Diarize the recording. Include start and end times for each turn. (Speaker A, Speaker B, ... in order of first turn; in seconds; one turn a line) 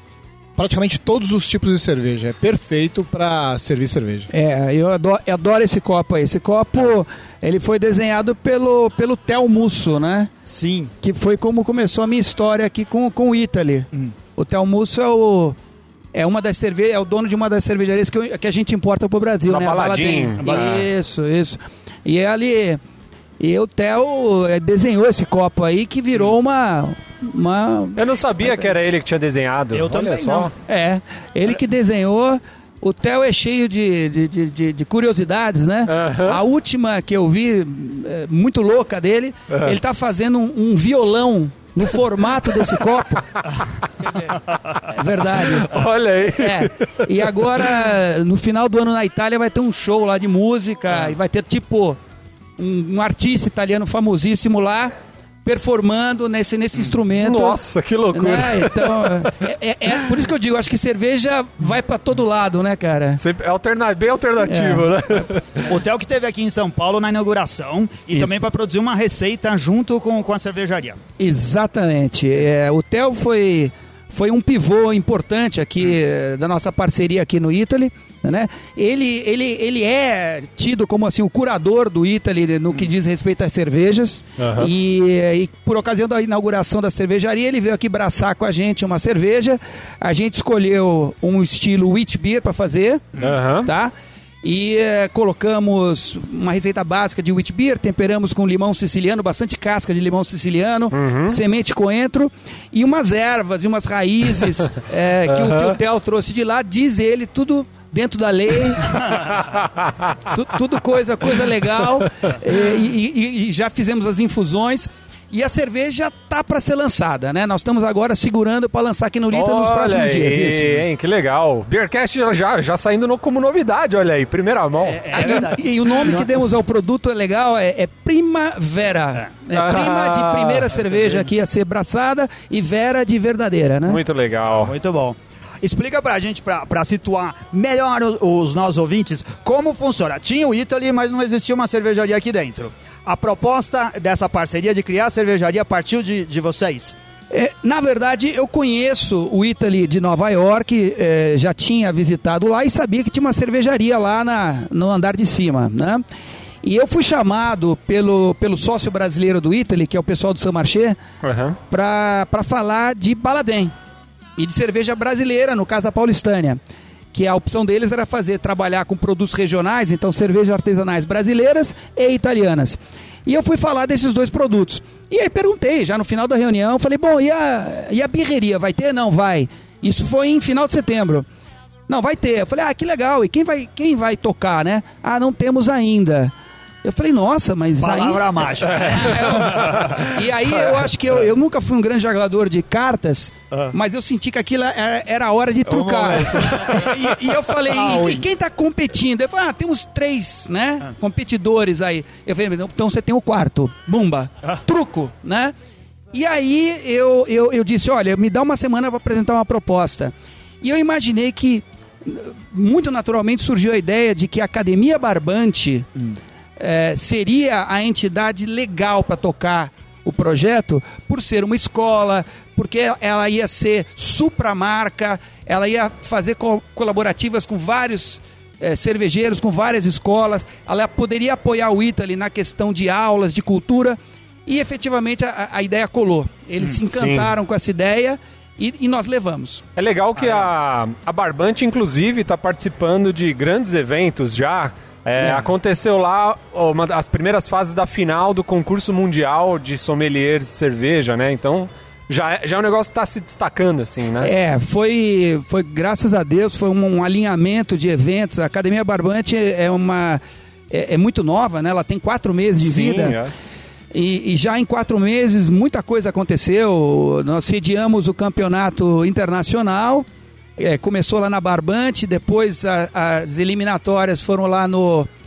Speaker A: 0.6-4.3
Speaker B: 4.3-10.3
Speaker C: 10.5-10.9
Speaker B: 11.0-15.6
Speaker B: 16.1-22.8
Speaker D: 19.5-20.9
Speaker C: 20.4-20.7
Speaker B: 23.4-28.7
Speaker D: 28.0-30.5
Speaker C: 29.7-30.5
Speaker B: 30.7-43.3
Speaker D: 35.9-36.4
Speaker D: 39.5-39.8
Speaker B: 44.9-52.0
Speaker D: 45.3-46.8
Speaker B: 52.6-54.9
Speaker B: 55.5-57.6
Speaker D: 57.2-59.3
Speaker B: 58.1-63.2
Speaker D: 63.2-65.7
Speaker B: 64.4-64.9
Speaker C: 65.7-71.0
Speaker B: 71.2-93.0
Speaker D: 84.4-84.7
Speaker D: 93.2-93.7
Speaker B: 93.6-109.3
Speaker D: 100.9-101.4
Speaker D: 105.3-105.8
Speaker B: 110.3-120.8
Speaker D: 119.3-125.5
Speaker C: 124.8-126.3
Speaker B: 125.1-134.0
Speaker D: 129.5-130.8
Speaker D: 133.9-134.7
Speaker C: 134.5-147.0
Speaker B: 147.3-156.0
Speaker B: 156.6-161.0
Speaker D: 161.2-161.6
Speaker B: 161.7-163.7
Speaker B: 164.4-166.6
Speaker B: 167.1-181.3
Speaker B: 181.9-186.3
Speaker B: 186.8-205.5
Speaker C: 187.8-190.2
Speaker D: 188.7-189.9
Speaker C: 195.7-196.9
Speaker C: 197.7-198.2
Speaker B: 206.1-215.9
Speaker B: 216.6-239.6
Speaker D: 236.9-237.3
Speaker D: 239.8-254.3
Speaker B: 245.2-245.5
Speaker B: 254.2-263.2
Speaker D: 262.6-263.3
Speaker B: 263.9-270.1
Speaker B: 270.6-275.1